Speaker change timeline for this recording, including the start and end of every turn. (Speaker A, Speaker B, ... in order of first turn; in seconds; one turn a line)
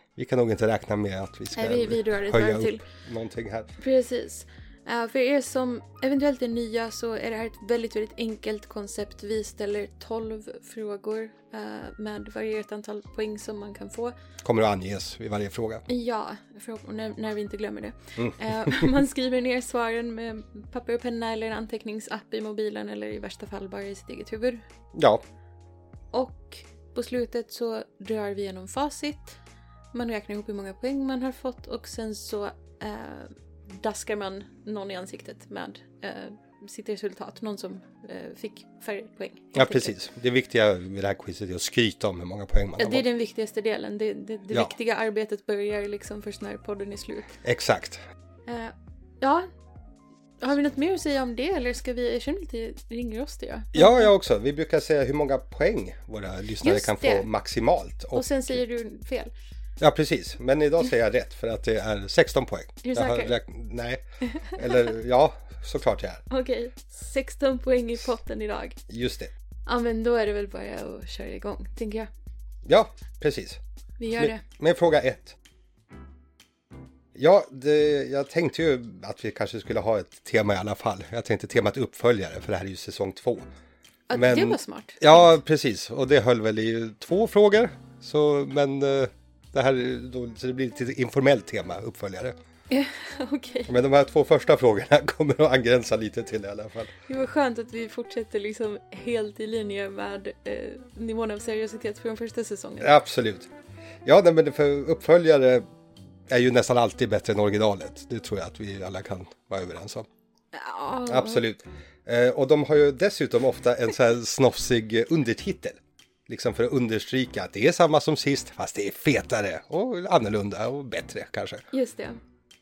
Speaker A: 0.1-3.7
Speaker B: 1.5-2.8
Speaker B: 3.8-14.1
Speaker A: 14.4-15.8
Speaker B: 15.9-24.6
Speaker A: 18.2-18.9
Speaker A: 24.9-25.2
Speaker B: 26.1-29.4
Speaker B: 29.9-39.9
Speaker A: 39.5-43.0
Speaker B: 42.8-47.3
Speaker A: 47.4-48.0
Speaker B: 48.5-49.5
Speaker B: 50.4-54.1
Speaker A: 53.7-58.6
Speaker B: 56.6-57.3
Speaker B: 58.1-59.3
Speaker A: 59.8-64.0
Speaker B: 62.8-63.4
Speaker B: 64.3-64.8
Speaker A: 64.5-66.2
Speaker B: 66.3-68.8
Speaker A: 68.9-69.3
Speaker B: 69.7-72.1
Speaker A: 72.6-73.6
Speaker B: 74.0-74.5
Speaker A: 74.2-75.4
Speaker A: 77.1-83.4
Speaker B: 84.1-85.3
Speaker A: 84.1-92.3
Speaker B: 92.7-93.7
Speaker A: 93.7-96.9
Speaker B: 97.1-102.9
Speaker A: 102.8-103.5
Speaker A: 104.0-105.7
Speaker A: 106.3-110.1
Speaker B: 110.5-111.4
Speaker A: 111.1-121.6
Speaker B: 121.7-122.2